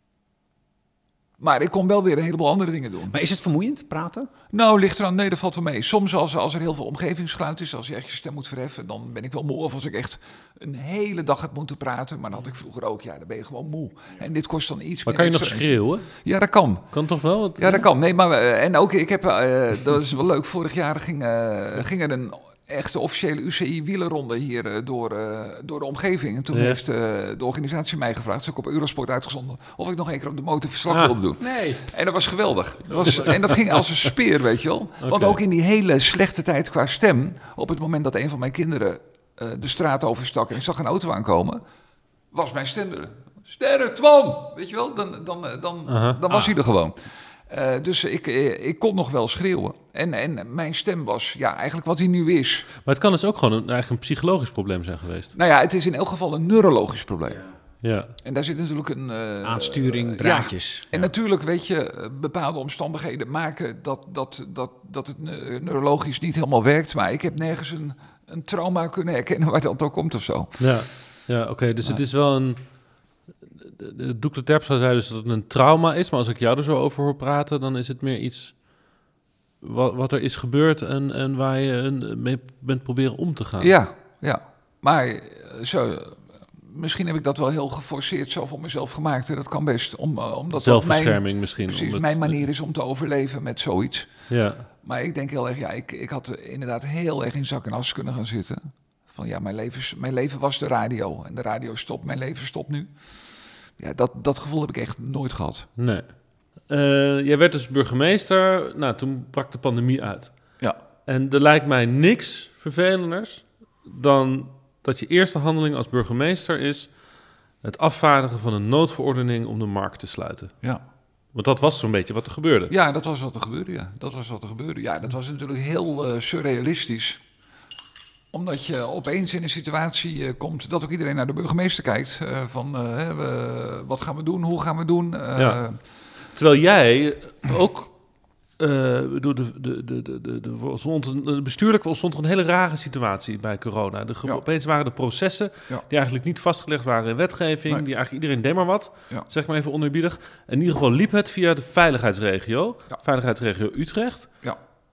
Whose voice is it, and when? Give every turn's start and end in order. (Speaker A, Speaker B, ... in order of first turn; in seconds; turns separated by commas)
Speaker A: 1.4-3.1, Speaker B: 3.1-4.3, Speaker A: 4.5-17.0, Speaker C: 15.0-16.3, Speaker C: 16.9-17.9, Speaker A: 17.6-41.6, Speaker C: 26.5-26.8, Speaker B: 31.4-31.9, Speaker C: 33.0-34.0, Speaker C: 35.0-35.4, Speaker A: 42.3-52.7, Speaker C: 45.9-46.2, Speaker C: 52.8-55.3, Speaker A: 55.3-71.1, Speaker C: 57.8-58.1, Speaker B: 59.4-61.1, Speaker C: 70.6-79.1, Speaker C: 79.6-83.7, Speaker A: 83.6-105.7, Speaker C: 90.5-92.4, Speaker C: 94.3-94.7, Speaker C: 105.8-120.7, Speaker C: 121.3-122.7, Speaker A: 122.7-127.2, Speaker A: 128.3-135.8, Speaker C: 135.3-154.3